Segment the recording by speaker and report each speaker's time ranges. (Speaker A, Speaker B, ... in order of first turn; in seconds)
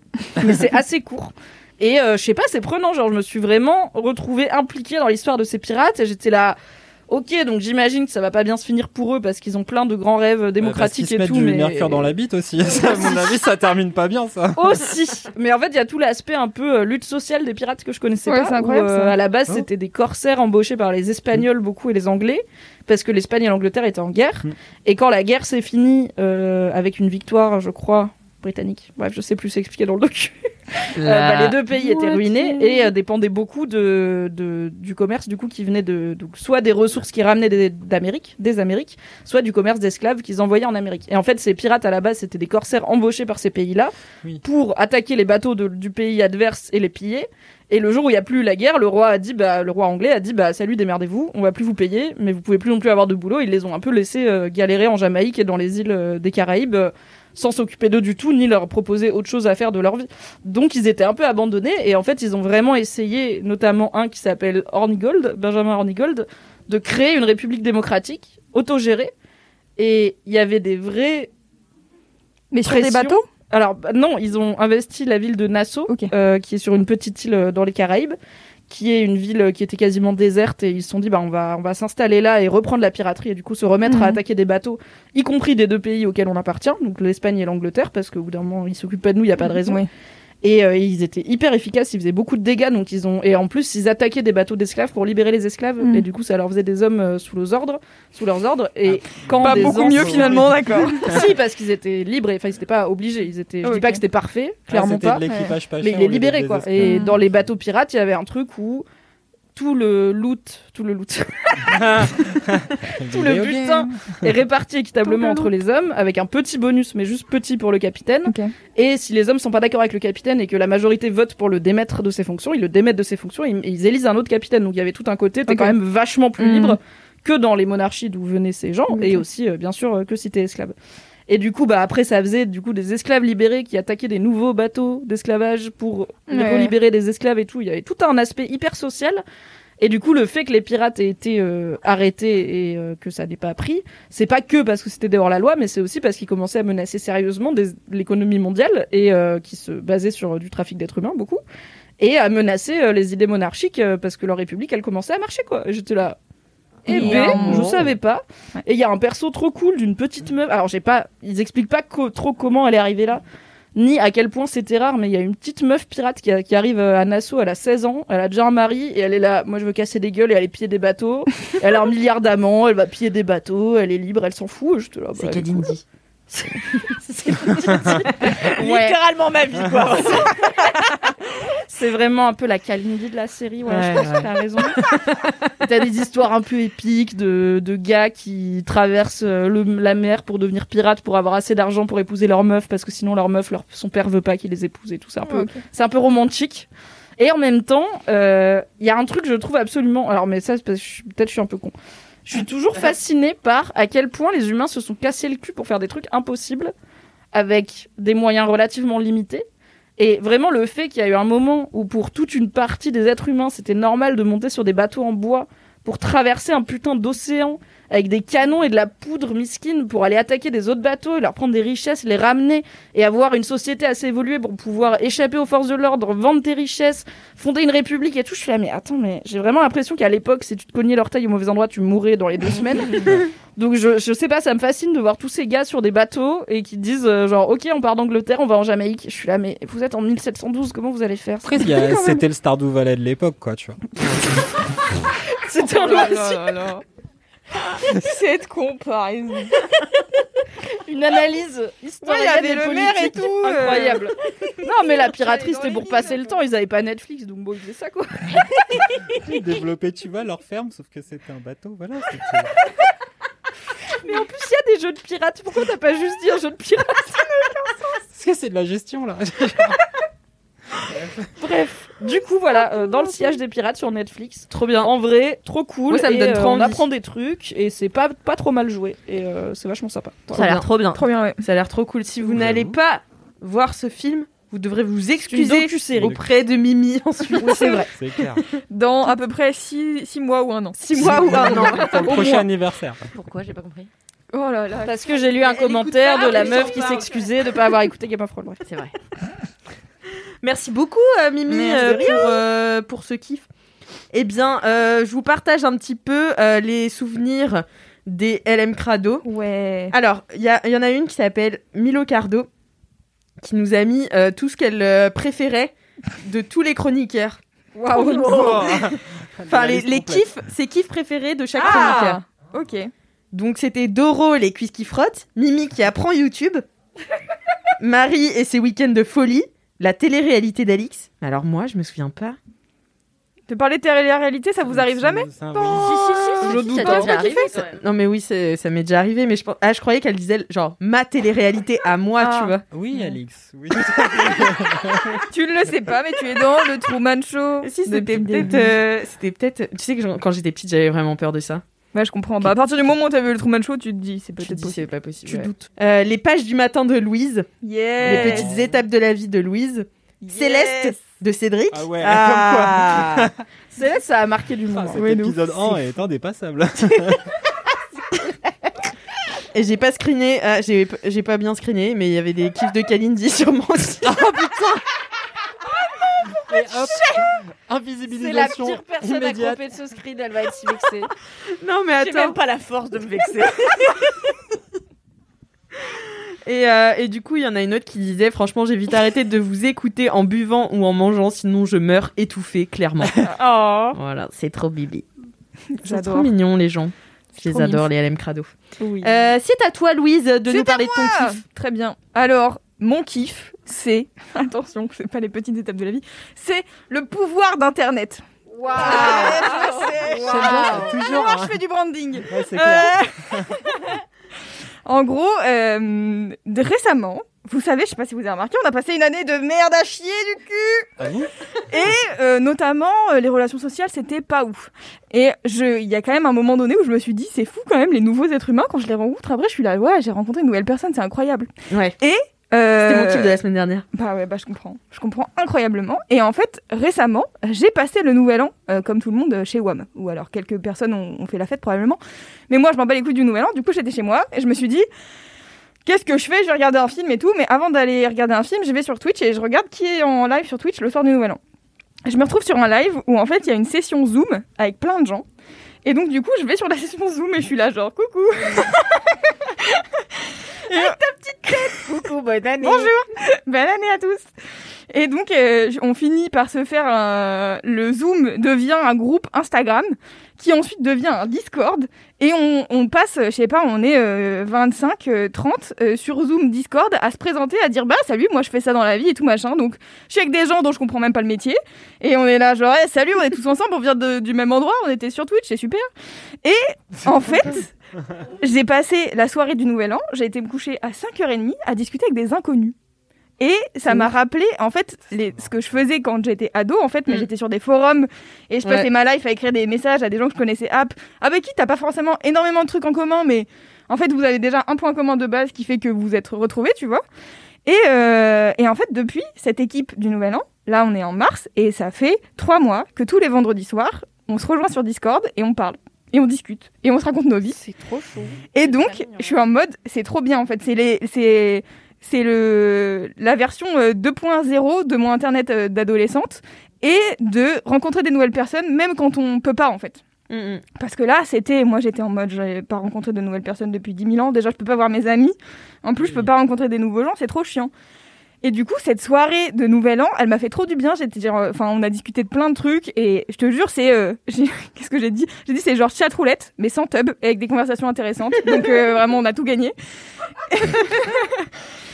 Speaker A: 0.4-6.6, 7.1-12.1, 12.7-13.3, 14.6-30.4, 31.0-69.1, 69.8-71.3, 72.7-78.2, 78.7-89.8, 90.4-105.3, 105.8-108.9, 109.5-112.0, 113.0-130.7, 131.3-139.2, 139.8-151.4, 152.0-156.2, 156.8-163.2, 163.8-175.7, 177.0-179.0, 181.7-184.8, 185.6-196.7, 197.2-201.8, 202.3-206.7, 207.3-209.5, 210.0-241.7, 245.5-246.6, 250.8-258.4, 264.0-267.3, 271.4-280.6, 285.3-286.2, 287.4-287.9, 294.9-298.6, 301.5-302.4, 336.4-337.5, 363.7-365.1, 378.1-381.1, 398.8-399.3, 408.6-410.9
Speaker B: 10.6-14.8, 98.9-101.2, 104.7-107.1, 111.7-114.3, 241.4-243.8, 259.1-262.5, 268.1-269.8, 270.9-271.3, 282.2-282.8, 287.9-288.4, 291.0-293.0, 318.3-320.4, 334.7-335.9, 342.7-345.2, 358.0-358.7, 361.7-363.3, 364.7-367.3, 374.0-374.8, 376.5-379.7, 410.2-411.6, 412.3-413.5, 421.0-421.3, 536.0-536.3
Speaker C: 18.3-19.1, 31.7-32.9, 72.5-73.3, 83.8-84.2, 89.4-89.9, 95.8-96.0, 99.4-101.2, 103.6-104.0, 105.3-105.6, 106.8-107.2, 115.0-115.5, 118.3-118.5, 125.5-125.8, 126.4-126.8, 128.9-129.2, 136.3-136.7, 156.9-157.8, 195.3-195.6, 241.7-242.2, 245.5-246.8, 247.8-249.6, 252.0-254.1, 254.9-256.4, 272.5-273.4, 280.9-281.4, 287.4-287.9, 288.7-292.5, 294.3-297.0, 309.2-309.9, 317.8-318.9, 321.6-322.9, 333.5-337.4, 345.3-348.8, 351.9-355.5, 357.6-358.5, 360.2-361.0, 364.9-365.6, 395.8-396.3, 397.4-397.8, 400.5-413.4, 414.9-420.9, 421.7-433.4, 433.9-444.9, 445.9-451.4, 452.1-455.2, 455.9-458.8, 460.7-462.0, 462.6-464.3, 464.9-485.9, 486.4-487.7, 488.4-492.8, 493.4-507.0, 507.7-517.6, 518.5-530.0, 530.8-537.7, 538.4-549.8, 550.5-551.5
Speaker D: 31.0-31.5, 157.1-157.7, 175.2-175.8, 183.7-185.3, 274.5-274.9, 275.9-276.8, 280.4-287.9, 290.8-292.2, 296.3-296.8, 300.4-303.5, 304.1-309.2, 309.9-312.5, 313.4-317.4, 319.5-322.2, 323.3-326.6, 327.8-332.4, 337.7-342.6, 347.6-351.6, 354.4-357.5, 358.0-363.3, 369.5-374.1, 381.6-382.4, 386.4-393.3, 393.9-395.1, 395.9-401.4, 431.7-431.9, 432.8-433.9, 498.6-498.9, 530.3-530.6
Speaker E: 178.4-180.4, 280.3-281.0, 293.1-293.9, 295.8-297.0, 298.7-298.9, 318.0-318.6, 335.7-337.8, 382.0-384.0, 393.4-393.8, 408.7-410.6, 518.6-519.4